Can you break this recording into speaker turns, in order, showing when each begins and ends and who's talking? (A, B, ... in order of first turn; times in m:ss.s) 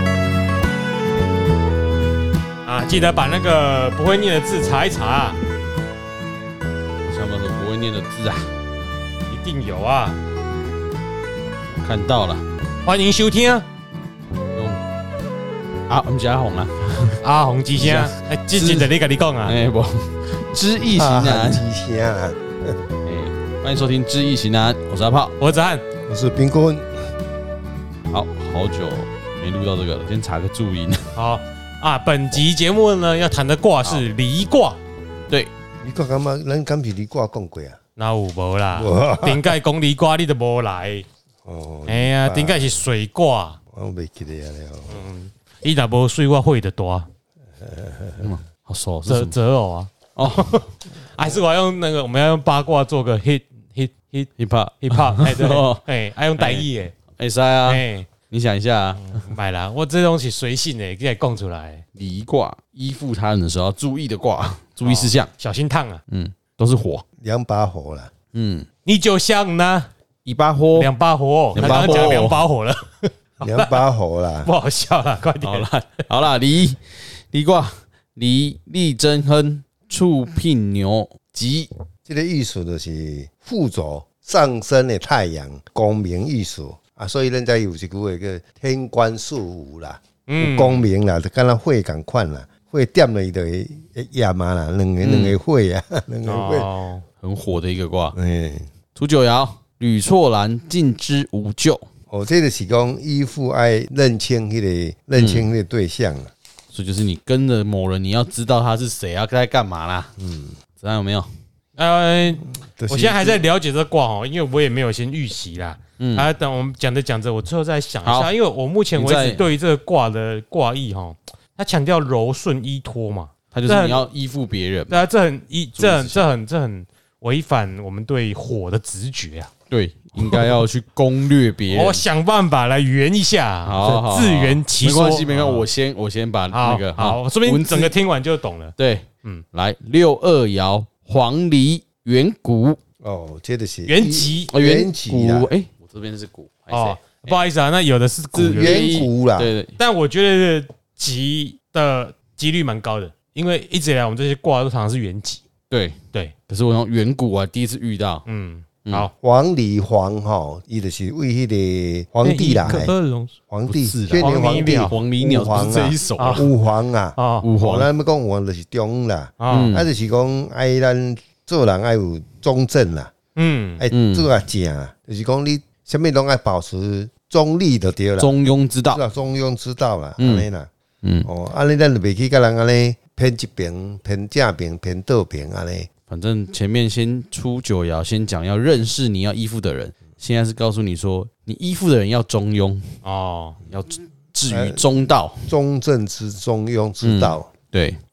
0:02.6-0:05.4 A
0:07.1-0:08.5 B
0:09.3-0:10.2 A
0:11.8-0:12.4 B
0:12.8-0:13.6 A
0:14.5-0:14.8 B
0:15.9-0:17.2 B
0:17.2-0:19.6 A
0:17.8-0:18.9 B
0:19.4-0:21.6 B
0:20.9-0:22.8 C
0:23.0-0:25.4 B
0:25.4-0:25.8 A
0:26.1-0:26.9 C
0:28.1-0:31.1 B
0:31.2-0:34.8 A
0:35.8-0:37.8 C
0:38.0-0:41.0 A
0:38.7-0:39.6 C
0:41.4-0:42.8 C
0:41.9-0:43.6 A
0:43.7-0:45.0 C
0:44.9-0:47.1 A
0:47.6-0:48.3 C
0:48.2-0:49.3 B
0:49.1-0:54.3 A
0:50.2-0:50.6 B
0:54.4-0:55.8 B
0:54.8-0:56.9 A
0:56.4-0:59.2 B
0:57.6-0:58.1 A
0:59.0-1:01.8 A
1:01.9-1:05.3 B
1:04.8-1:06.0 A
1:06.1-1:07.0 B
1:07.2-1:08.1 C
1:08.3-1:08.7 B
1:08.8-1:09.9 A
1:10.2-1:10.9 B
1:10.8-1:13.7 A
1:11.5-1:12.4 B
1:11.6-1:11.9 C
1:13.4-1:14.5 C
1:14.4-1:15.7 A
1:15.4-1:21.7 B
1:22.1-1:36.7 C
1:30.3-1:30.9 A
1:35.0-1:35.4 B
1:36.2-1:37.0 A
1:37.2-1:38.2 B
1:38.1-1:38.7 C
1:38.9-1:41.8 B
1:42.1-1:46.3 C
1:45.2-1:45.5 B
1:46.7-1:50.1 B
1:50.2-1:50.6 C
1:50.8-1:51.3 B
1:51.8-2:04.0 A
1:52.4-1:53.4 C
1:56.0-1:56.2 B
1:58.0-1:58.3 B
1:58.9-1:59.4 B
2:03.5-2:05.0 B
2:04.9-2:09.5 A
2:05.8-2:06.2 B
2:09.7-2:12.0 B
2:10.2-2:10.6 A
2:11.7-2:15.7 A
2:13.6-2:18.0 B
2:16.5-2:19.4 A
2:18.8-2:22.8 B
2:23.0-2:25.5 C
2:23.9-2:24.5 A
2:24.5-2:27.4 B
2:26.7-2:28.9 A
2:28.3-2:29.8 B
2:28.5-2:29.5 C
2:29.8-2:35.4 A
2:35.7-2:38.2 B
2:38.2-2:39.1 A
2:39.2-2:42.9 C
2:42.2-2:43.4 A
2:43.5-2:53.1 C
2:43.7-2:46.5 B
2:44.2-2:45.0 A
2:46.2-2:46.4 A
2:47.2-2:47.5 A
2:47.4-2:47.9 B
2:49.4-2:49.7 A
2:49.5-2:49.9 B
2:53.4-2:53.8 A
2:53.8-2:58.4 C
2:53.9-2:54.3 B
2:58.2-2:59.0 B
2:58.9-3:00.7 C
3:00.2-3:00.4 B
3:01.0-3:01.3 B
3:01.2-3:05.9 C
3:06.1-3:13.0 B
3:13.0-3:13.6 A
3:13.7-3:15.5 B
3:14.5-3:17.5 C
3:17.0-3:18.0 B